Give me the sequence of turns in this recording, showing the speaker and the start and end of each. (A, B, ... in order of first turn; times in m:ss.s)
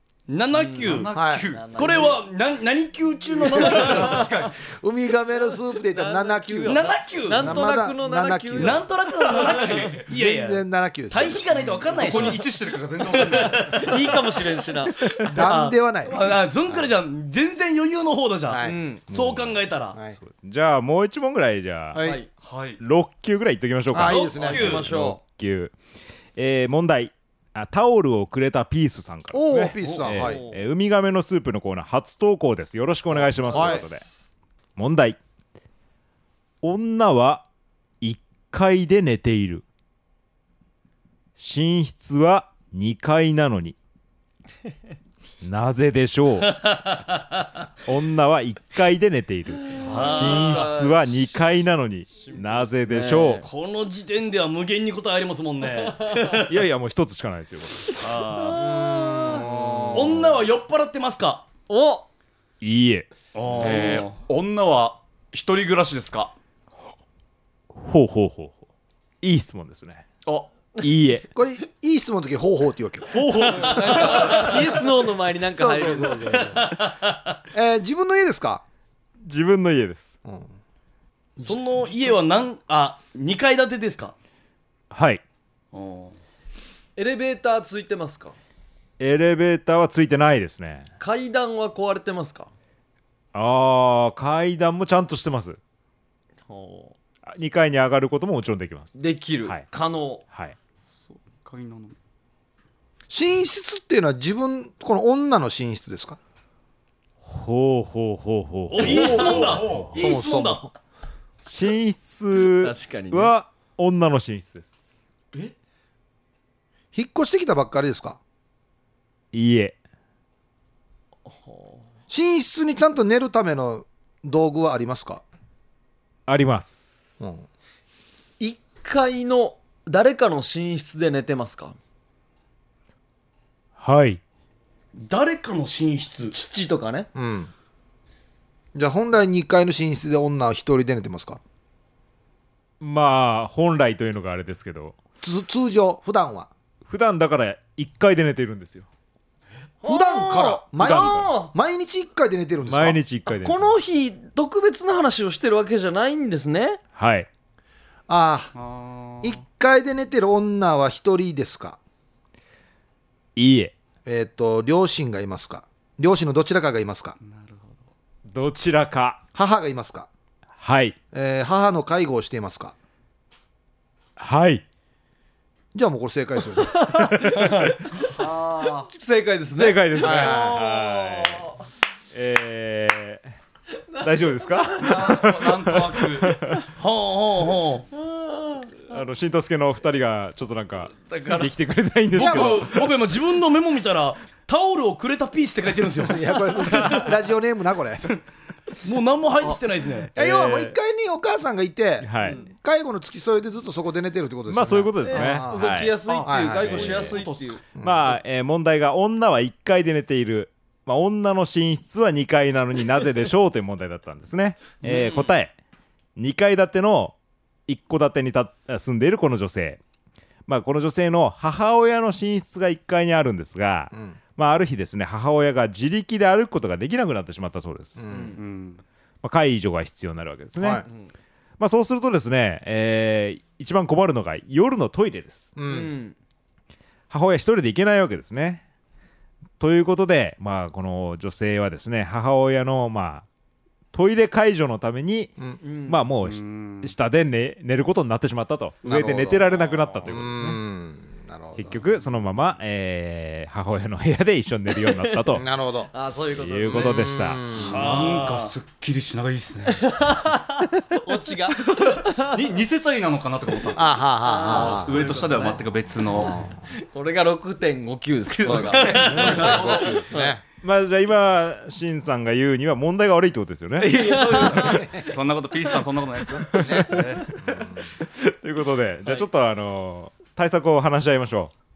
0:00.3-0:01.1 A
0:00.5-0:02.2 B
0:00.8-0:02.1 C
0:01.1-0:01.4 D
0:01.7-0:04.3 A
0:03.3-0:04.5 C
0:03.5-0:04.2 B
0:04.6-0:08.8 D
0:05.9-0:10.0 B
0:06.6-0:07.6 A
0:08.6-0:12.4 A
0:10.1-0:11.4 D
0:11.6-0:14.2 C
0:13.3-0:15.0 B
0:15.2-0:20.0 A
0:15.2-0:16.9 D
0:18.5-0:18.8 D
0:18.6-0:19.0 B
0:19.1-0:19.6 E
0:20.2-0:22.0 E
0:21.9-0:22.2 D
0:22.0-0:22.3 B
0:22.4-0:22.8 C
0:22.8-0:25.7 E
0:23.9-0:24.9 D
0:24.0-0:24.8 A
0:24.4-0:25.2 B
0:26.4-0:34.0 E
0:29.3-0:30.4 D
0:30.1-0:30.6 B
0:33.2-0:34.0 B
0:33.5-0:33.9 D
0:34.8-0:35.2 E
0:36.6-0:37.5 E
0:38.0-0:39.6 E
0:41.4-0:43.8 E
0:45.4-0:46.6 E
0:46.6-0:47.0 A
0:47.8-0:53.4 E
0:49.8-0:51.0 B
0:49.8-0:50.7 A
0:52.1-0:53.4 B
0:53.4-0:56.6 A
0:56.4-0:58.0 E
0:58.0-0:58.7 A
0:58.1-0:59.8 B
0:58.8-1:00.2 D
0:59.9-1:01.4 A
1:01.7-1:02.1 B
1:02.6-1:03.1 E
1:03.3-1:04.1 A
1:03.5-1:06.3 C
1:07.7-1:08.6 E
1:09.2-1:10.0 E
1:10.2-1:10.5 C
1:10.8-1:11.2 E
1:11.3-1:14.5 D
1:13.1-1:16.7 B
1:13.3-1:14.2 A
1:15.5-1:16.8 D
1:17.5-1:18.6 D
1:19.2-1:20.1 E
1:20.2-1:20.5 D
1:21.4-1:24.1 A
1:21.4-1:21.8 D
1:24.9-1:25.2 E
1:25.7-1:26.1 A
1:27.0-1:28.4 B
1:29.0-1:30.9 E
1:31.0-1:32.5 B
1:33.3-1:35.6 E
1:36.5-1:36.9 B
1:37.2-1:39.6 E
1:39.0-1:40.2 B
1:41.1-1:42.0 C
1:43.1-1:46.2 D
1:47.2-1:49.6 E
1:48.7-1:50.6 A
1:48.8-1:50.0 C
1:49.9-1:50.7 D
1:51.4-1:54.9 E
1:52.5-1:53.3 B
1:56.9-1:58.2 D
1:59.3-1:59.8 E
2:01.3-2:01.8 B
2:02.1-2:05.2 D
2:06.3-2:07.1 E
2:08.4-2:11.8 B
2:13.8-2:14.2 E
2:15.0-2:16.3 A
2:16.3-2:17.1 B
2:17.1-2:17.5 D
2:18.7-2:21.4 D
2:22.8-2:25.0 E
2:25.2-2:26.5 D
2:26.8-2:28.9 E
2:29.8-2:31.5 B
2:29.8-2:33.0 D
2:30.8-2:31.2 E
2:32.7-2:33.7 E
2:33.2-2:36.8 B
2:37.0-2:37.3 E
2:38.1-2:38.5 D
2:38.5-2:39.4 C
2:39.2-2:41.8 D
2:43.4-2:43.7 E
2:44.0-2:47.2 D
2:47.2-2:47.8 C
2:48.3-2:49.2 E
2:49.3-2:50.1 D
2:50.6-2:51.0 E
2:51.1-2:52.7 D
2:54.2-2:54.6 E
2:55.7-2:57.1 D
2:56.9-2:57.7 E
2:57.4-2:57.7 A
2:58.0-3:01.5 B
2:59.6-3:01.5 E
3:00.0-3:00.6 D
3:02.1-3:03.3 E
3:03.9-3:05.3 B
3:04.0-3:06.7 E
3:04.8-3:06.4 C
3:06.8-3:07.8 A
3:07.9-3:08.7 B
3:08.9-3:12.9 E
3:11.1-3:11.5 B
3:12.1-3:17.1 A
3:16.0-3:18.2 D
3:18.8-3:20.1 A
3:20.1-3:20.8 E
3:20.1-3:27.2 D
3:22.0-3:22.4 E
3:24.5-3:26.0 E
3:25.0-3:27.6 B
3:26.5-3:27.2 E
3:26.7-3:27.6 C
3:27.7-3:28.1 D
3:27.8-3:35.5 E
3:36.2-3:37.2 E
3:37.7-3:39.8 E
3:40.5-3:48.2 E
3:48.0-3:48.3 D
3:48.1-3:48.4 B
3:48.3-3:48.8 C
3:49.2-3:50.8 E
3:50.6-3:50.8 D
3:51.6-3:55.5 E
3:55.6-3:55.9 D
3:55.7-3:56.2 B
3:57.1-3:58.6 E
3:59.6-4:03.2 E
4:03.9-4:05.3 E
4:05.6-4:06.0 B
4:05.8-4:10.6 E
4:06.2-4:06.9 C
4:08.8-4:09.4 D
4:10.0-4:11.8 D
4:11.6-4:15.4 E
4:15.3-4:15.9 D
4:15.9-4:17.3 B
4:16.4-4:17.4 E
4:16.6-4:17.9 D
4:17.5-4:18.5 A
4:17.7-4:19.9 C
4:19.8-4:22.4 B
4:21.8-4:26.4 C
4:23.8-4:24.9 D
4:24.2-4:25.6 B
4:26.7-4:30.3 B
4:28.3-4:30.1 C
4:28.5-4:30.4 D
4:30.6-4:34.4 E
4:33.8-4:37.4 C
4:33.9-4:34.8 B
4:34.6-4:35.1 D
4:36.5-4:36.9 E
4:36.6-4:37.9 D
4:38.0-4:41.5 E